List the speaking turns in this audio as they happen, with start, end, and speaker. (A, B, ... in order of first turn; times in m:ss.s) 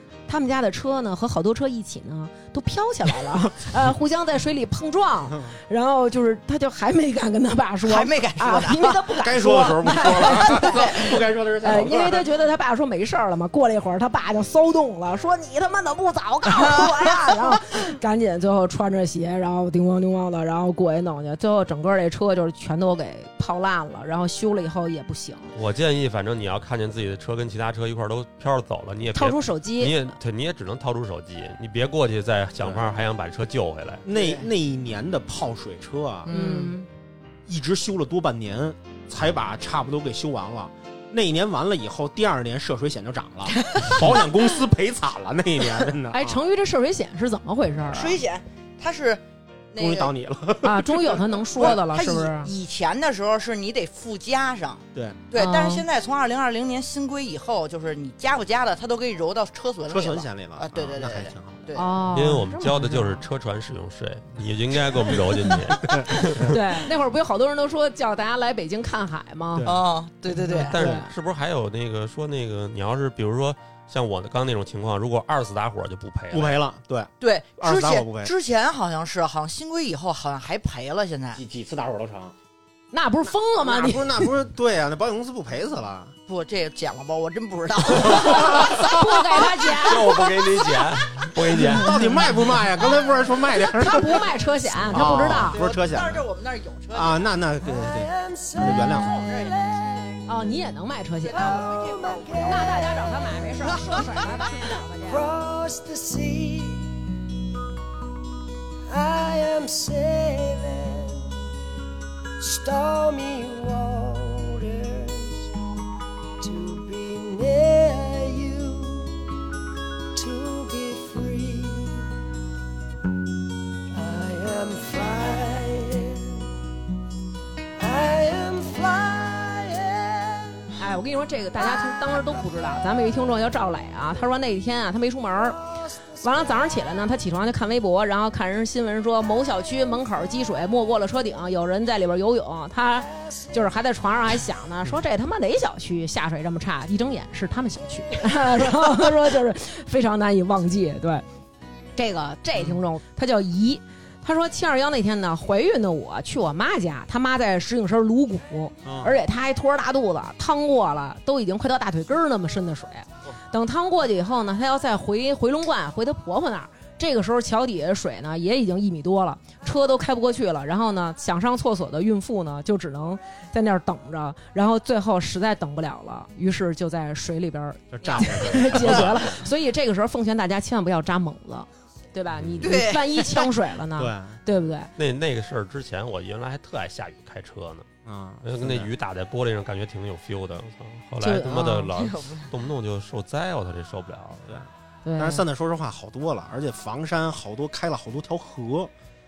0:00.3-0:11.1 A
0:07.8-0:09.2 B
0:09.2-0:12.3 C
0:10.6-0:11.2 B
0:11.6-0:25.5 A
0:16.6-0:17.0 B
0:25.6-0:34.0 D
0:29.1-0:30.1 A
0:32.6-0:32.9 C
0:34.1-0:36.3 C
0:34.1-0:34.5 B
0:36.3-0:36.8 B
0:36.3-0:36.9 A
0:37.5-0:46.4 C
0:43.6-0:44.1 B
0:46.1-0:48.2 A
0:47.9-0:49.2 B
0:49.7-0:50.1 B
0:49.8-0:51.7 C
0:50.6-0:52.5 A
0:51.6-1:01.9 B
0:55.0-0:55.2 C
0:55.4-0:55.8 A
0:59.9-1:01.7 C
1:01.8-1:03.2 A
1:02.1-1:06.6 D
1:05.8-1:06.6 C
1:06.1-1:09.7 A
1:09.7-1:10.8 B
1:10.3-1:11.1 A
1:10.7-1:16.6 D
1:16.3-1:18.3 C
1:17.2-1:21.4 B
1:21.4-1:22.3 C
1:22.9-1:24.3 A
1:23.6-1:26.2 C
1:26.3-1:29.5 B
1:28.0-1:32.6 A
1:29.7-1:32.0 D
1:31.6-1:34.3 C
1:33.5-1:35.6 A
1:34.9-1:36.3 C
1:35.3-1:37.2 B
1:36.9-1:39.2 C
1:37.6-1:40.3 E
1:38.6-1:39.5 B
1:40.3-1:41.7 A
1:41.3-1:44.2 E
1:41.3-1:42.7 B
1:42.4-1:45.2 A
1:43.7-1:44.0 B
1:45.0-1:47.0 E
1:48.9-1:51.3 E
1:52.4-1:55.5 E
1:56.4-1:59.2 E
2:00.2-2:02.1 E
2:03.9-2:06.4 E
2:07.8-2:10.8 E
2:10.8-2:15.6 A
2:11.6-2:13.0 E
2:15.4-2:16.8 E
2:16.2-2:31.2 A
2:23.1-2:23.6 E
2:32.0-3:04.9 A
2:38.8-2:39.2 C
2:57.9-2:59.4 C
3:02.4-3:02.6 D
3:02.6-3:03.5 B
3:04.0-3:04.4 C
3:05.0-3:07.9 D
3:08.1-3:08.9 C
3:08.4-3:14.6 D
3:11.2-3:11.9 A
3:11.9-3:12.5 B
3:14.5-3:18.9 C
3:15.0-3:15.4 A